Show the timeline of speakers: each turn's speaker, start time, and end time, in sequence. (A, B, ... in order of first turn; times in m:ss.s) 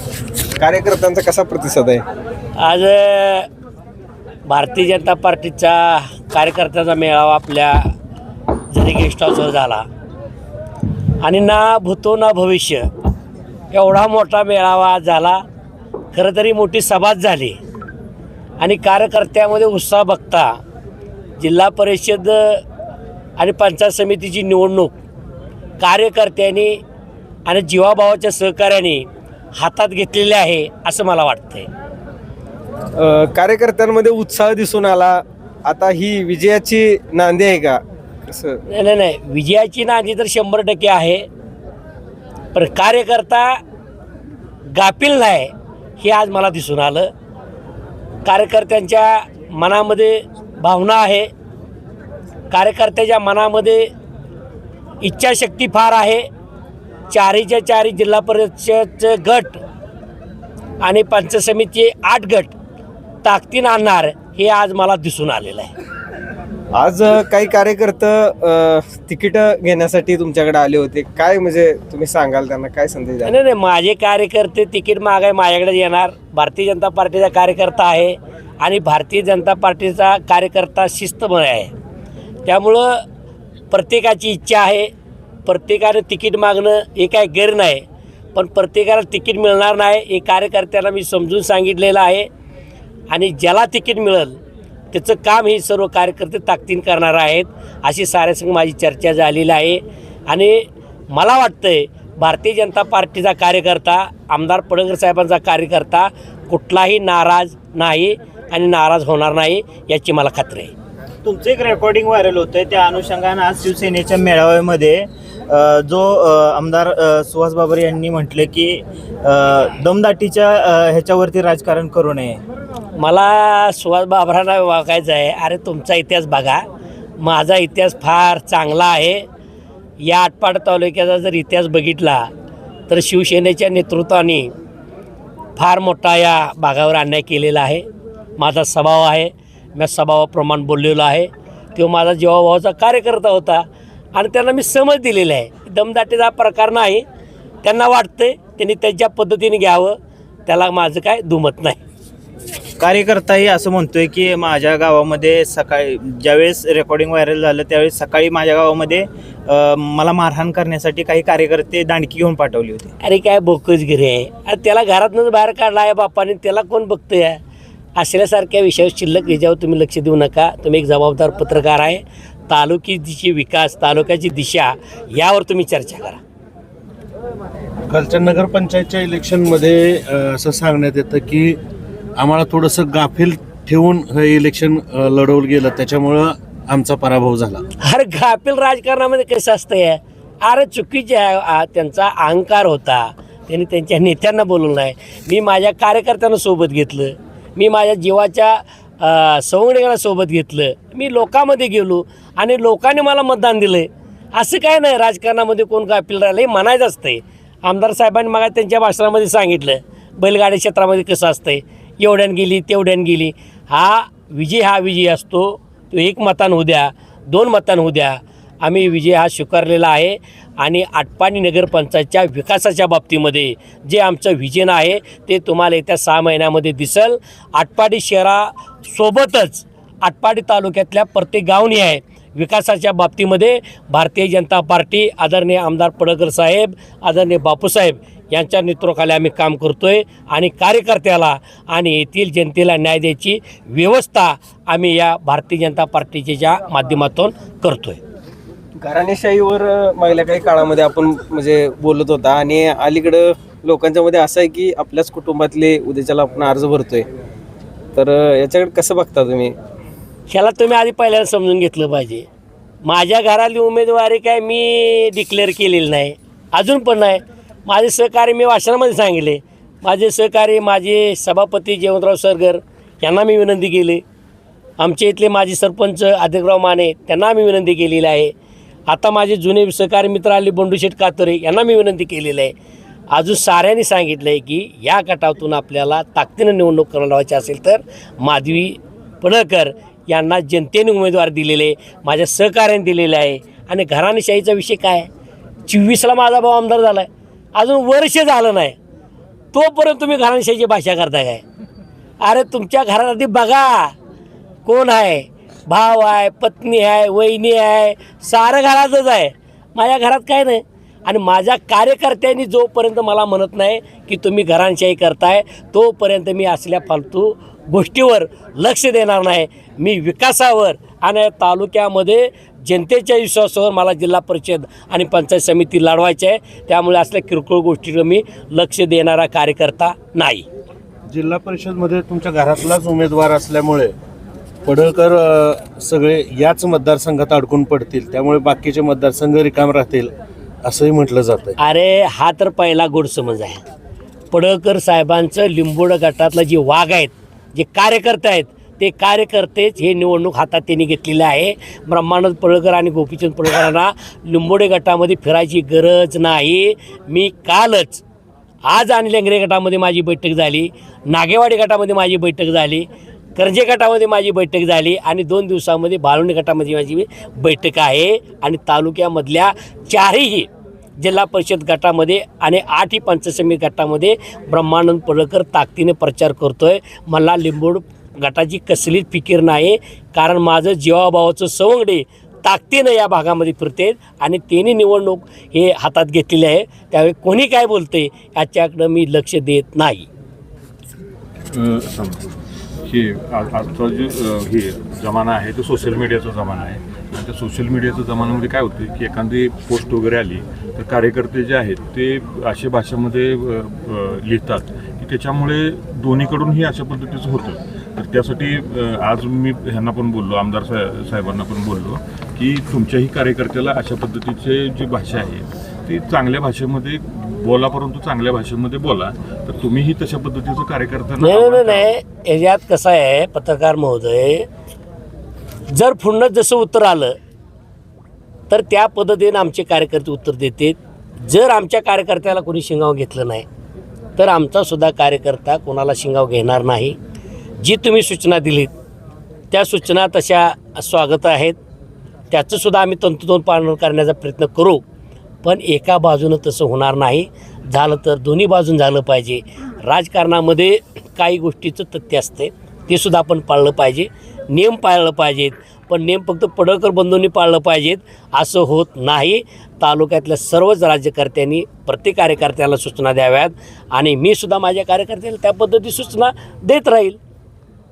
0:00.6-0:02.0 A
0:02.6-0:03.5 B
0:04.5-0:07.9 B
0:08.7-0:09.9 B
0:11.2-0:12.9 B
0:13.7-0:15.4 B
0:16.1-0:17.6 B
0:18.6-0:20.6 B
0:21.4-0:22.6 B
0:23.4-0:24.9 B
0:25.8-0:26.8 B
0:27.5-0:31.7 B
0:33.0-0:38.6 A
0:38.7-0:41.3 B
0:42.5-0:43.6 B
0:44.7-0:47.1 B
0:48.2-0:51.3 B
0:52.5-0:53.9 B
0:55.0-0:56.2 B
0:57.1-0:59.6 B
1:00.8-1:02.5 B
1:03.2-1:05.7 B
1:06.8-1:13.3 A
1:13.2-1:21.7 B
1:22.4-1:23.0 B
1:23.7-1:24.9 B
1:25.5-1:32.3 B
1:33.1-1:34.4 B
1:34.9-1:50.7 B
1:51.2-2:02.4 C
2:03.0-2:06.6 B
2:07.2-2:09.2 B
2:10.0-2:12.3 B
2:12.9-2:14.5 B
2:15.6-2:17.9 B
2:18.4-2:27.0 B
2:27.6-2:31.8 B
2:32.8-2:42.9 C
2:43.0-2:47.4 B
2:48.0-2:56.2 B
2:57.9-3:01.6 D
3:02.2-3:07.6 D
3:07.8-4:08.0 B
4:08.8-4:17.1 A
4:18.0-4:19.6 A
4:20.3-4:22.3 B
4:22.8-4:34.0 B
4:34.8-4:38.3 B
4:38.9-4:42.5 B
4:43.1-4:55.1 B
4:55.7-4:58.8 B
4:59.5-5:01.4 B
5:02.2-5:03.9 B
5:04.7-5:30.5 B
5:31.1-5:34.0 D
5:34.6-5:40.1 D
5:40.6-5:41.6 D
5:41.6-5:43.6 B
5:44.3-5:58.0 B
5:58.6-6:30.1 B
6:31.5-6:32.3 E
6:32.8-7:02.0 E
7:01.2-7:04.5 B
7:05.7-7:07.2 B
7:08.5-7:13.4 B
7:14.2-7:17.0 B
7:17.6-7:18.7 B
7:19.5-7:21.6 B
7:22.3-7:24.8 B
7:25.4-7:47.2 B